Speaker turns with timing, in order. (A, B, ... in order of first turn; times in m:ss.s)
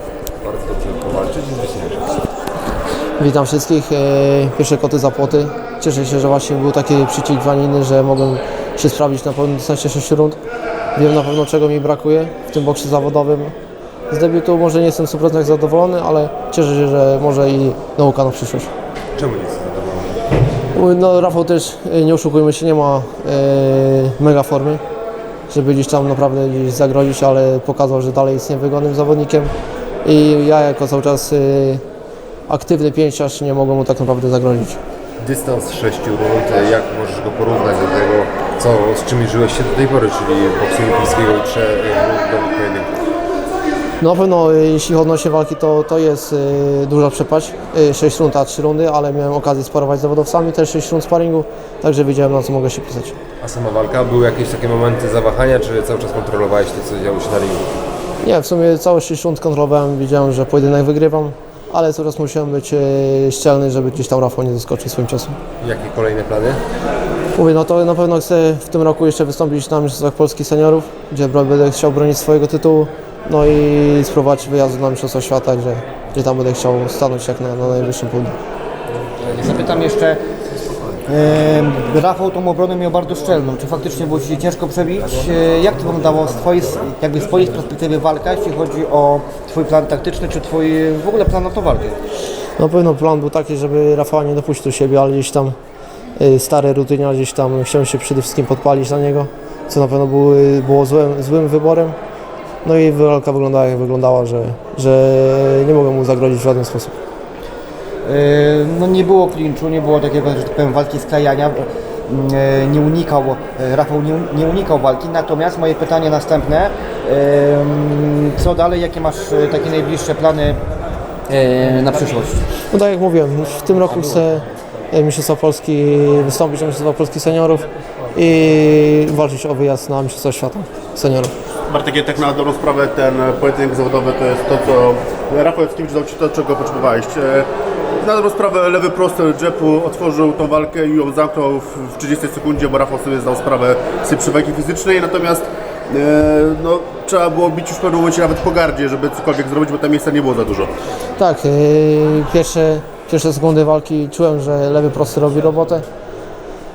0:00.4-0:02.2 A
0:03.2-0:10.4 B
0:10.9-0:13.5 B
0:14.1-0:18.7 B
0:19.2-0:20.2 A
0:20.7-0:24.8 B
0:25.5-0:29.5 B
0:30.0-0:31.8 B
0:32.5-0:34.8 B
0:35.2-0:43.0 A
0:44.0-0:53.2 B
0:53.4-0:57.8 A
0:58.2-1:05.4 B
1:05.6-1:06.6 A
1:07.3-1:18.4 B
1:19.2-1:20.2 C
1:21.1-1:32.0 C
1:32.6-1:35.6 B
1:36.2-1:42.0 B
1:42.6-1:47.0 B
1:48.0-2:00.6 C
2:01.3-2:02.4 C
2:02.7-2:11.3 B
2:11.7-2:17.5 D
2:18.0-2:30.7 D
2:31.2-2:35.8 B